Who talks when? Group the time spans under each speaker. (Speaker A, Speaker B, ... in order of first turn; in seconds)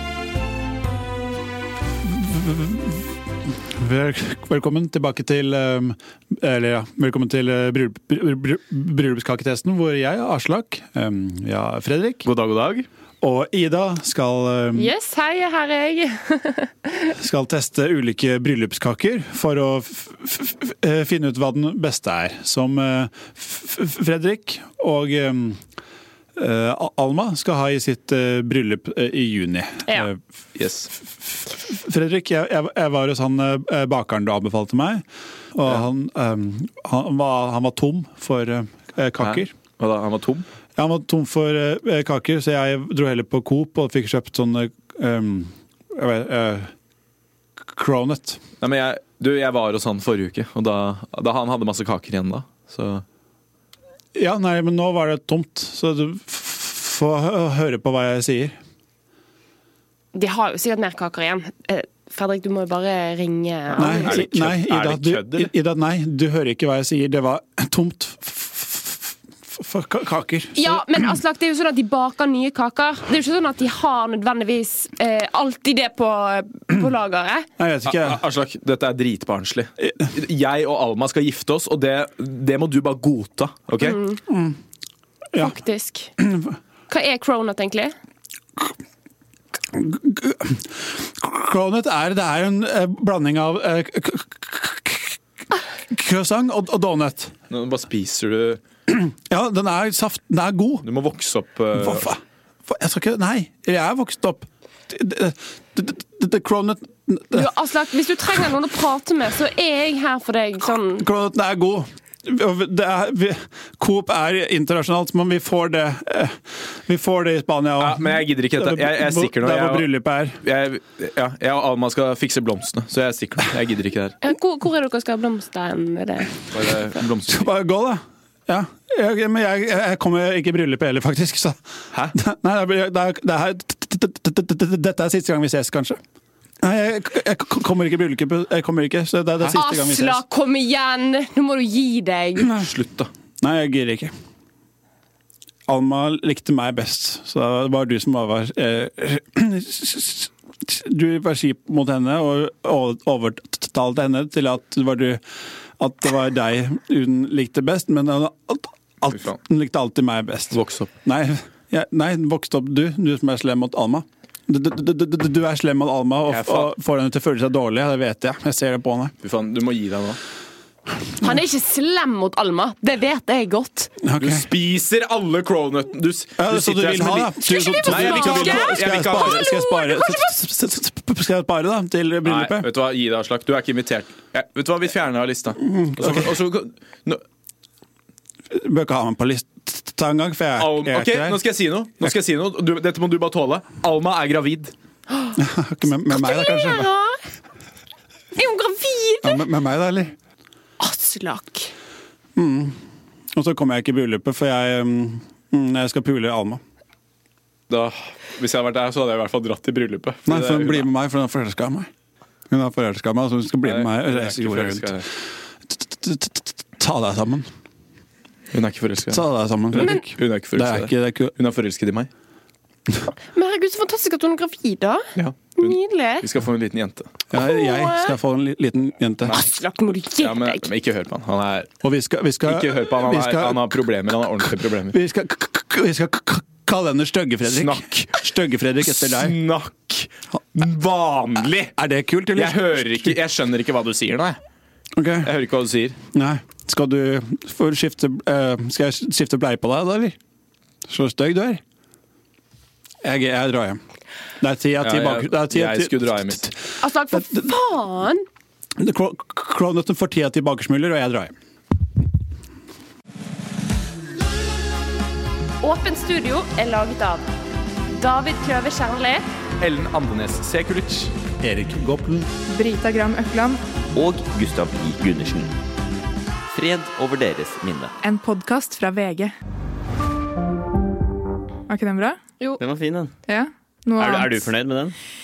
Speaker A: 2.0-12.3, 13.2-14.9, 17.1-25.6, 26.4-30.2, 31.0-35.0, 35.5-39.5, 40.8-46.7, 47.6-48.4, 54.1-58.5, 63.8-71.0, 77.6-78.2, 84.3-84.6, 86.2-86.5, 89.7-95.2, 95.9-97.3, 98.9-100.9, 101.7-107.5, 111.0-120.4, 127.3-131.6, 132.1-136.0, 136.6-140.2, 143.4-144.1, 145.7-155.2, 155.8-169.1, 174.0-174.5, 176.4-182.7, 185.6-186.4, 188.5-191.4, 195.3-196.9, 199.2-200.2, 202.4-202.8, 203.3-206.6, 210.3-211.9, 212.5-215.0, 215.7-217.5, 219.1-221.3, 227.3-229.4, 231.8-233.9, 234.4-239.4, 241.8-243.2, 245.0-245.3, 246.1-250.2, 250.9-251.6, 253.0-253.8, 254.4-256.6, 257.1-257.4, 258.8-261.3, 271.4-272.3
Speaker B: 12.2-12.9, 30.6-30.9, 39.2-40.5, 48.6-53.0, 64.0-65.5, 77.8-84.0, 97.5-98.6, 100.8-102.1, 117.8-124.2, 126.5-127.5, 142.6-143.1, 159.1-159.4, 160.5-160.9, 166.3-166.7, 169.2-170.2, 174.2-179.5, 182.2-187.2, 190.6-194.7, 207.7-210.9, 213.6-215.1, 218.5-222.1, 225.2-227.1, 230.2-231.7, 232.4-234.9, 237.5-238.1, 238.8-241.7, 242.3-244.4, 245.2-246.0, 254.8-256.5, 269.6-271.1
Speaker C: 14.8-17.1, 60.1-64.2, 70.5-77.5, 83.8-84.2, 85.4-86.1, 86.9-87.9, 107.3-111.1, 124.2-126.5, 139.5-142.7, 171.2-173.9, 177.4-180.3, 196.1-197.2, 198.4-199.4, 200.8-201.7, 223.3-225.0, 225.6-226.3, 227.3-228.1, 229.3-230.7, 256.8-258.2, 265.6-267.2, 267.9-269.2
Speaker D: 272.5-273.6, 278.0-279.3, 281.7-282.2, 283.3-284.5
Speaker E: 273.9-275.5, 276.5-277.9, 282.6-283.1, 284.0-285.0